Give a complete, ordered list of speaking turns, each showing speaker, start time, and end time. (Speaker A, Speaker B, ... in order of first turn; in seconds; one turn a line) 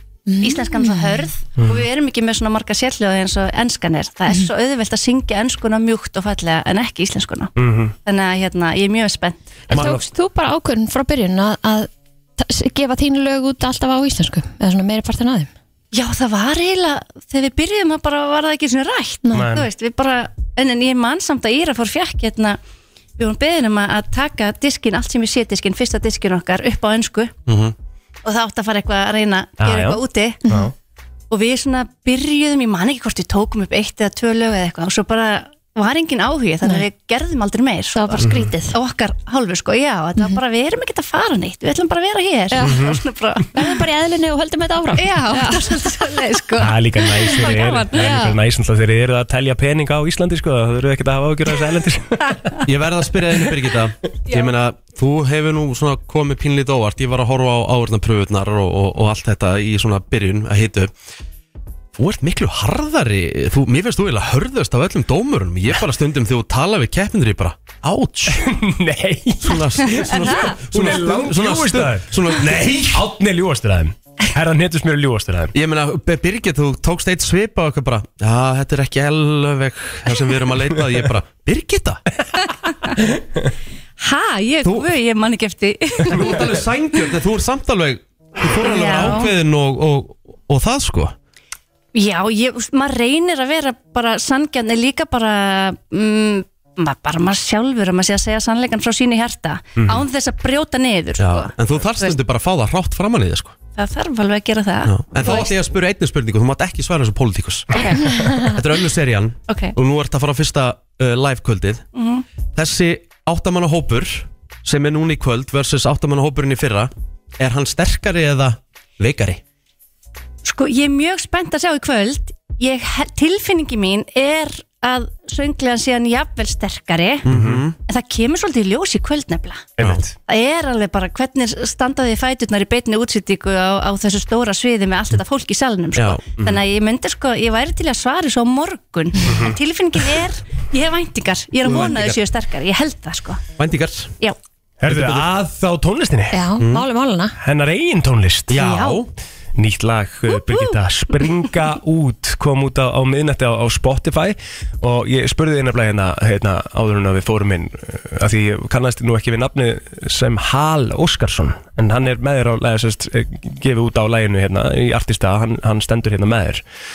Speaker A: 0.3-1.3
Speaker B: 0.4-7.5
Speaker C: 7.6-8.0
Speaker B: 8.1-10.0
Speaker A: 9.7-15.5
Speaker C: 9.7-10.0
Speaker B: 15.9-22.6
Speaker A: 19.2-19.5
Speaker C: 19.3-19.7
Speaker B: 23.2-27.3
Speaker D: 27.5-27.7
Speaker B: 28.2-30.4
Speaker C: 29.6-30.7
Speaker A: 30.4-30.7
Speaker B: 31.3-43.7
Speaker A: 38.0-38.8
Speaker C: 38.2-38.5
Speaker A: 42.5-42.8
Speaker C: 42.6-43.0
Speaker A: 43.5-45.8
Speaker B: 45.0-48.2
Speaker C: 46.6-52.4
Speaker A: 47.9-48.4
Speaker D: 52.7-60.9
Speaker D: 62.0-68.5
Speaker C: 68.3-75.5
Speaker D: 69.4-73.0
Speaker B: 70.0-70.6
Speaker D: 75.5-82.0
Speaker B: 82.6-82.9
Speaker B: 84.0-86.4
Speaker D: 84.6-84.9
Speaker D: 86.1-91.1
Speaker B: 88.6-89.3
Speaker B: 92.0-102.2
Speaker D: 101.2-103.5
Speaker B: 103.8-105.5
Speaker D: 104.9-111.9
Speaker B: 107.7-108.5
Speaker B: 109.5-109.8
Speaker B: 111.9-112.2
Speaker D: 112.5-119.4
Speaker B: 120.4-127.3
Speaker C: 127.3-127.6
Speaker D: 127.3-127.8
Speaker B: 127.8-143.4
Speaker C: 129.8-130.1
Speaker D: 136.0-136.6
Speaker C: 139.3-139.6
Speaker D: 141.6-142.2
Speaker D: 143.6-144.1
Speaker C: 144.8-146.4
Speaker D: 144.9-145.2
Speaker A: 146.3-147.3
Speaker D: 146.6-146.8
Speaker C: 147.4-148.6
Speaker D: 148.5-149.1
Speaker B: 148.6-149.0
Speaker C: 149.6-166.6
Speaker B: 150.4-150.8